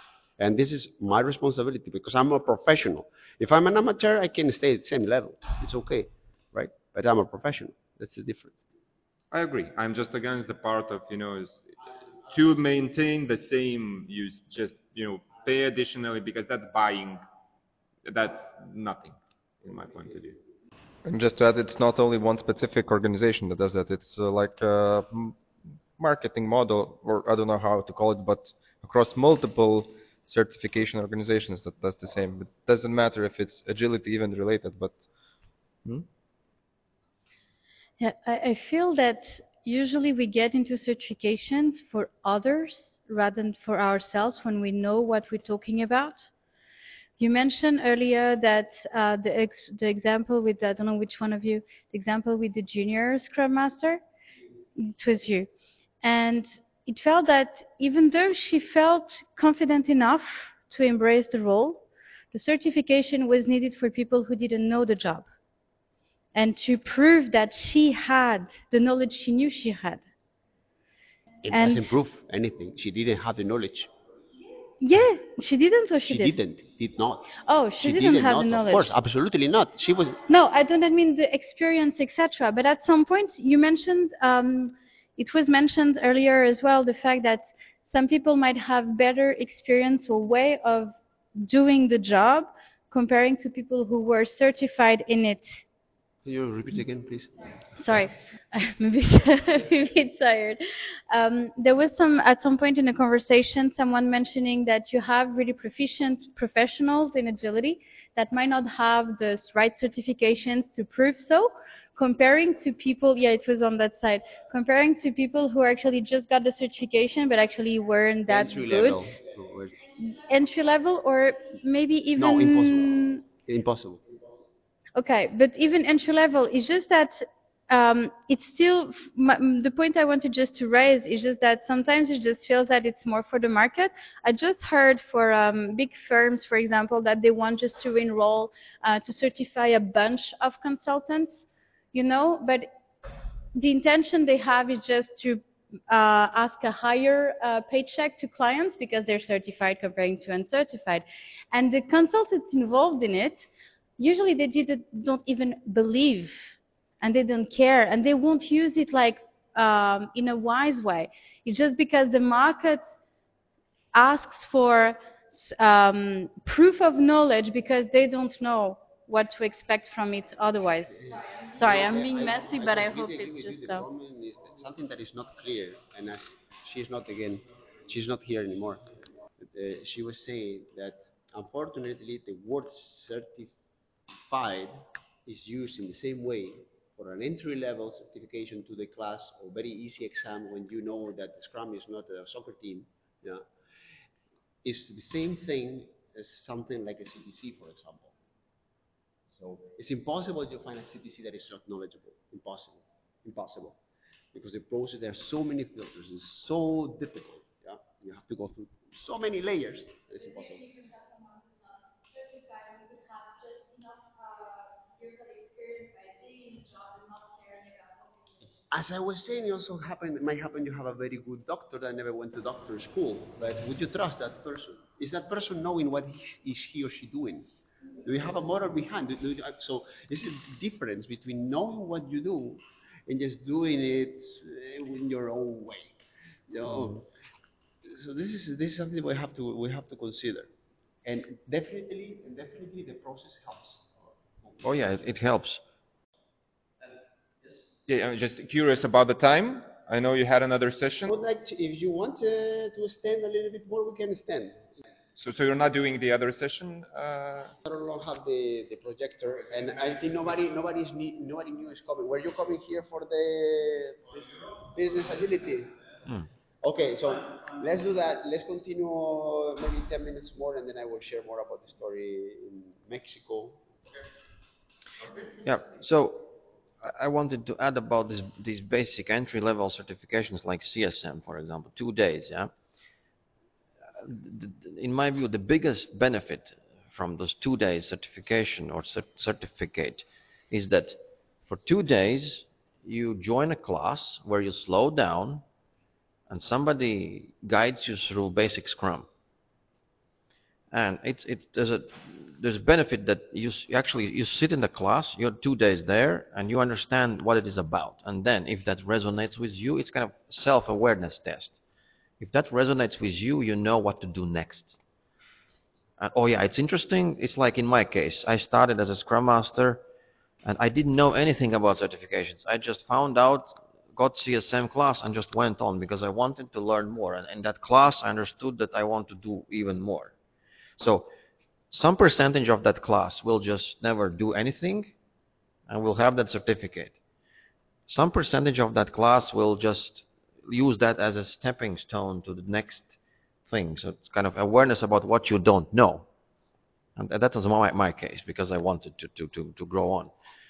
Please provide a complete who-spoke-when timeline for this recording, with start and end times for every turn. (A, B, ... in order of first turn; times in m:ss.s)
0:00.4-0:08.6 A
0:09.3-0:11.7 B
0:12.3-0:17.2 B
0:18.1-0:20.4 B
0:21.0-0:25.4 C
0:26.0-0:35.1 C
0:38.0-0:46.3 D
0:47.2-0:54.0 D
0:54.8-0:55.5 D
0:56.0-1:05.3 D
1:06.3-1:10.1 D
1:11.4-1:13.9 A
1:11.5-1:11.9 D
1:14.8-1:16.4 D
1:16.1-1:20.2 A
1:17.4-1:18.9 D
1:20.3-1:35.6 D
1:36.2-1:37.5 A
1:37.8-1:59.2 D
1:58.3-1:59.8 A
2:00.0-2:03.2 D
2:02.2-2:04.0 A
2:05.0-2:22.7 D
2:23.6-2:43.0 D
2:43.9-2:53.8 D
2:51.6-2:58.8 A
2:59.4-3:03.5 A
3:04.3-3:13.5 A
3:14.6-3:18.1 A
3:19.3-3:23.8 A
3:24.3-3:30.8 A
3:35.0-3:36.0 D
3:38.7-3:47.5 A
3:48.0-3:56.0 A
3:56.5-3:57.1 A
3:57.8-4:00.5 A
4:01.0-4:04.0 A
4:04.6-4:05.6 E
4:07.9-4:11.1 B
4:11.1-4:14.7 A
4:15.2-4:17.6 B
4:17.6-4:25.8 A
4:26.6-4:33.6 A
4:35.4-4:42.5 E
4:44.0-4:55.4 E
4:56.3-4:59.1 E
5:00.7-5:11.6 E
5:12.2-5:14.8 E
5:16.0-5:19.8 E
5:20.4-5:30.1 E
5:30.8-5:31.1 E
5:31.7-5:34.9 E
5:35.7-5:37.0 E
5:37.9-5:42.9 E
5:43.5-5:46.1 E
5:47.0-5:50.1 E